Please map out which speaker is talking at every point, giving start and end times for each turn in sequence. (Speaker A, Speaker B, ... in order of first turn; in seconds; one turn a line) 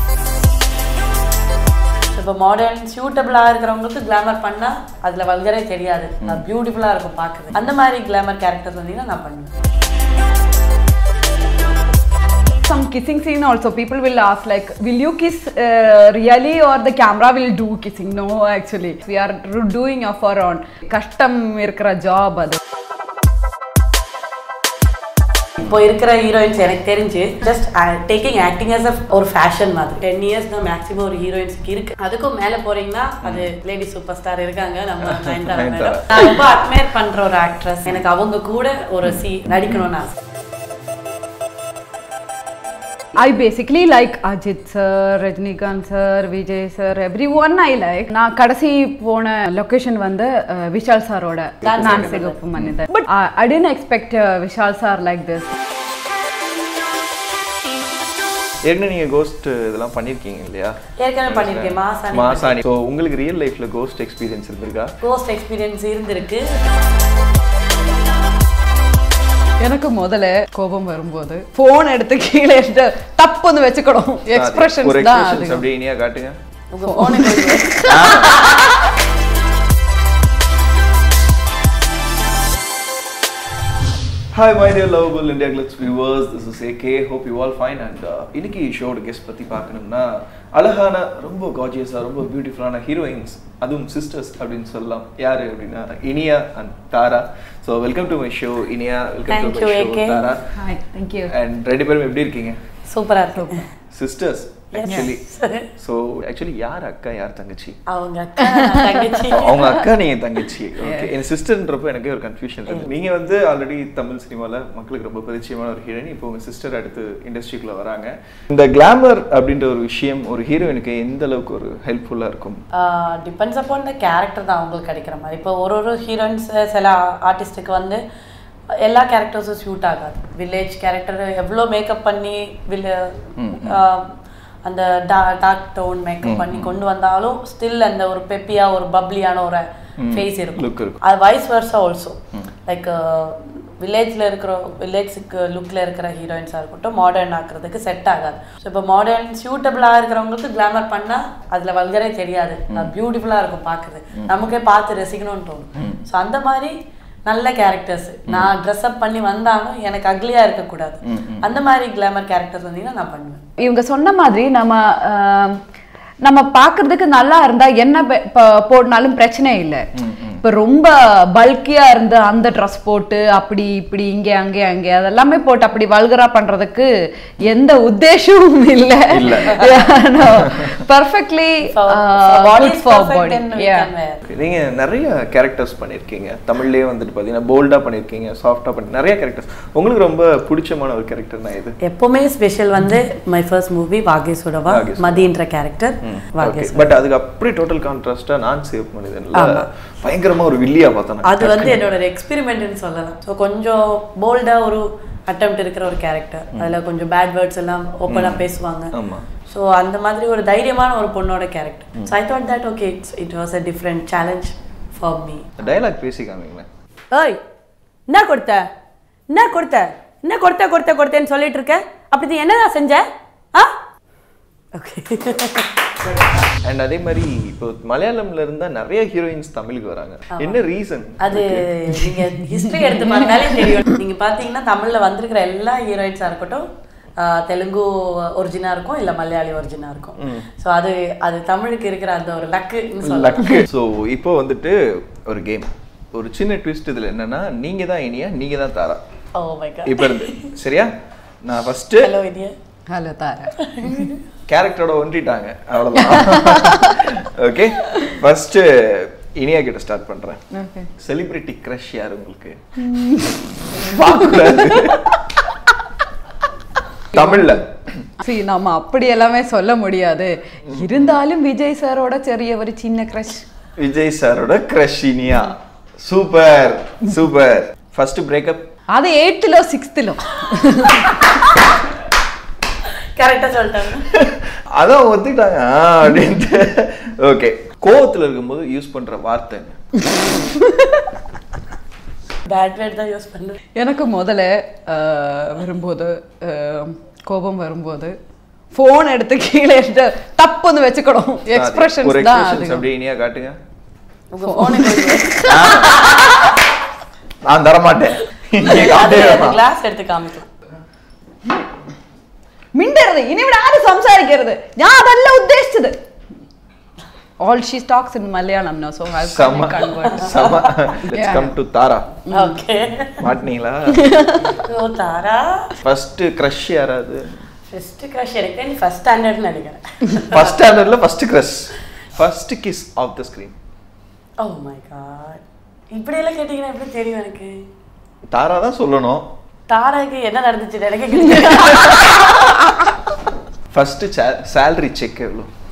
Speaker A: 2.1-9.5
Speaker B: 12.6-22.6
Speaker A: 25.6-40.1
Speaker C: 35.0-36.3
Speaker B: 43.1-55.5
Speaker A: 51.6-52.4
Speaker C: 51.7-52.7
Speaker C: 58.6-60.8
Speaker A: 61.0-62.6
Speaker C: 61.3-64.9
Speaker A: 65.0-66.5
Speaker B: 69.6-75.6
Speaker C: 74.3-76.3
Speaker A: 76.7-78.1
Speaker B: 76.8-78.8
Speaker C: 77.9-78.4
Speaker C: 84.3-100.5
Speaker A: 99.3-100.2
Speaker B: 100.5-101.3
Speaker C: 101.3-102.6
Speaker A: 102.9-103.7
Speaker B: 103.4-103.6
Speaker C: 103.9-105.2
Speaker A: 104.7-105.7
Speaker C: 105.8-107.8
Speaker A: 107.9-109.8
Speaker B: 108.4-109.2
Speaker C: 109.3-122.6
Speaker B: 110.8-111.1
Speaker A: 112.7-112.9
Speaker A: 122.8-128.0
Speaker A: 128.8-156.7
Speaker C: 133.4-133.8
Speaker C: 136.2-136.7
Speaker C: 140.0-141.0
Speaker A: 157.2-163.4
Speaker C: 161.1-161.4
Speaker B: 163.6-165.6
Speaker B: 166.2-169.8
Speaker C: 169.9-170.4
Speaker B: 170.4-176.9
Speaker B: 177.4-183.9
Speaker C: 179.1-180.7
Speaker A: 181.7-184.2
Speaker C: 184.2-191.8
Speaker A: 191.8-196.9
Speaker C: 194.7-195.3
Speaker C: 196.0-201.8
Speaker A: 199.3-199.7
Speaker A: 201.2-208.9
Speaker C: 208.1-209.2
Speaker A: 209.5-215.8
Speaker C: 215.6-216.7
Speaker A: 217.1-217.4
Speaker A: 218.1-218.7
Speaker A: 219.3-223.8
Speaker A: 224.7-225.9
Speaker C: 226.6-231.6
Speaker A: 230.3-230.6
Speaker A: 231.2-236.6
Speaker B: 233.3-233.7
Speaker A: 237.2-243.6
Speaker C: 243.0-249.0
Speaker A: 249.3-250.5
Speaker C: 249.8-250.9
Speaker C: 251.4-252.1
Speaker A: 252.0-252.5
Speaker B: 252.9-254.1
Speaker A: 253.6-254.2
Speaker C: 254.5-260.4
Speaker B: 256.0-256.9
Speaker B: 260.5-260.9
Speaker C: 261.0-262.6
Speaker B: 262.8-265.0
Speaker C: 263.6-265.4
Speaker C: 267.1-268.0
Speaker B: 267.1-267.5
Speaker B: 268.2-273.4
Speaker C: 270.7-271.1
Speaker C: 273.8-278.7
Speaker B: 278.9-281.7
Speaker A: 283.1-284.1
Speaker C: 284.0-289.8
Speaker B: 290.3-291.1
Speaker A: 292.4-293.6
Speaker B: 293.7-298.1
Speaker B: 298.7-302.9
Speaker C: 301.5-303.6
Speaker A: 304.3-306.0
Speaker B: 304.4-306.6
Speaker C: 305.5-306.0
Speaker C: 307.4-309.6
Speaker A: 308.6-310.5
Speaker B: 312.7-315.9
Speaker B: 317.4-320.4
Speaker C: 319.2-322.1
Speaker A: 320.2-320.8
Speaker B: 321.1-321.5
Speaker B: 322.3-322.6
Speaker A: 322.3-323.2
Speaker C: 323.2-324.0
Speaker B: 323.9-324.5
Speaker A: 324.4-325.7
Speaker C: 325.8-327.4
Speaker A: 327.7-330.8
Speaker C: 330.3-333.5
Speaker A: 334.4-335.4
Speaker A: 335.9-337.6
Speaker C: 338.3-339.2
Speaker A: 339.7-342.5
Speaker C: 343.7-345.5